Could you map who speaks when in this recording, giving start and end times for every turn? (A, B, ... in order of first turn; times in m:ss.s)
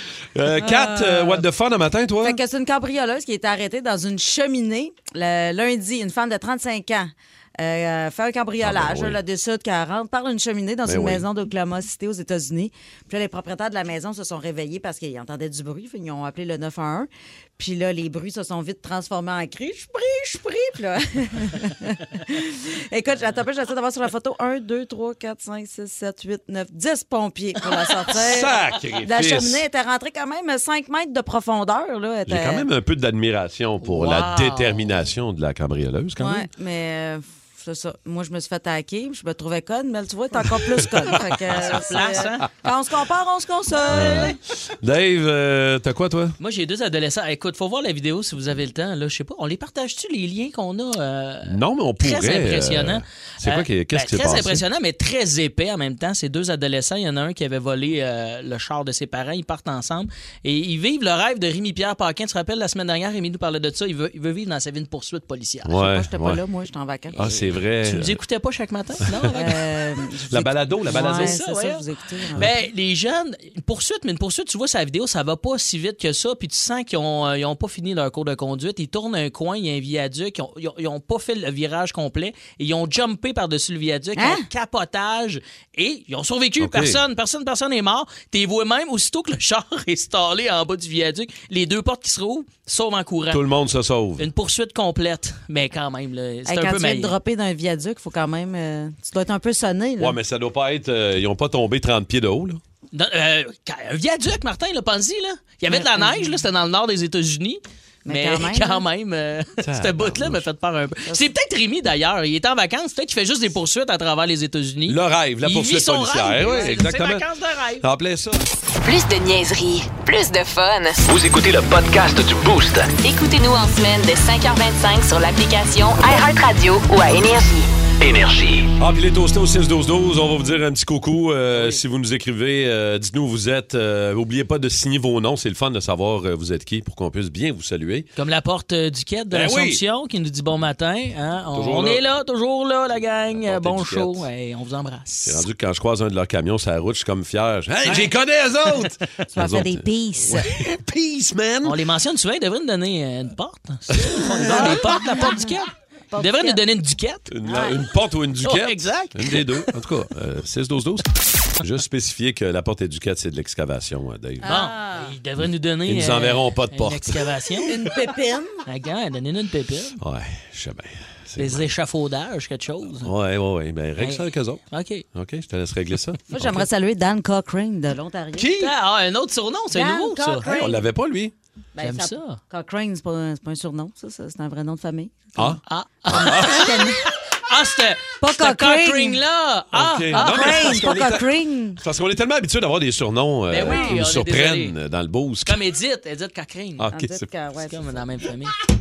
0:00.3-0:02.4 A
0:00.6-0:01.4 B
0:02.2-0:32.7 B
0:08.6-0:09.2 A
0:10.8-0:11.2 A
0:28.1-0:29.6 A
0:32.3-0:36.5 A
0:33.8-0:34.8 C
0:36.2-0:44.3 B
0:41.5-0:42.4 C
0:43.9-0:46.4 A
0:43.9-0:44.3 C
0:46.4-1:05.8 C
0:51.5-0:54.6 A
1:05.6-1:06.4 A
1:05.8-1:07.2 B
1:07.1-1:08.2 A
1:07.8-1:09.6 C
1:09.1-1:09.4 A
1:09.3-1:12.4 B
1:10.3-1:11.4 A
1:10.9-1:11.8 C
1:12.3-1:33.4 C
1:24.2-1:24.4 B
1:26.6-1:27.0 A
1:33.3-1:34.2 A
1:34.2-1:37.1 C
1:36.4-1:40.2 B
1:40.0-1:42.6 A
1:42.9-1:57.8 C
1:45.7-1:46.4 B
1:48.0-1:48.8 B
1:49.6-1:50.4 A
1:54.9-1:57.2 A
1:57.8-1:58.4 A
1:58.8-2:01.0 D
2:01.0-2:02.9 E
2:03.0-2:07.7 D
2:08.0-2:08.7 E
2:08.8-2:18.1 A
2:18.2-2:25.4 C
2:19.3-2:19.8 A
2:21.5-2:22.0 A
2:23.3-2:24.2 A
2:25.2-2:31.8 A
2:29.3-2:30.5 B
2:31.6-2:37.3 C
2:34.0-2:34.8 A
2:34.4-2:35.4 B
2:36.1-2:36.6 B
2:37.3-2:44.5 A
2:37.5-2:37.7 B
2:38.4-2:39.7 C
2:44.4-2:45.1 B
2:44.4-2:47.7 C
2:45.8-2:47.3 A
2:47.7-2:48.6 B
2:48.6-2:50.0 C
2:50.0-2:51.7 A
2:51.4-2:53.1 C
2:53.0-2:54.6 A
2:54.0-2:55.0 C
2:55.1-2:56.6 A
2:56.3-2:58.5 B
2:58.4-2:58.7 A
2:58.6-3:00.5 C
2:59.7-3:00.8 B
3:00.5-3:01.3 A
3:01.7-3:05.5 B
3:01.8-3:02.4 C
3:05.4-3:06.7 A
3:05.6-3:10.8 C
3:06.1-3:07.0 B
3:08.2-3:09.2 B
3:09.7-3:11.2 A
3:10.1-3:11.8 B
3:11.8-3:15.6 A
3:13.5-3:14.8 C
3:13.7-3:14.0 B
3:15.4-3:16.9 C
3:16.8-3:17.2 A
3:16.9-3:18.0 B
3:17.6-3:18.5 C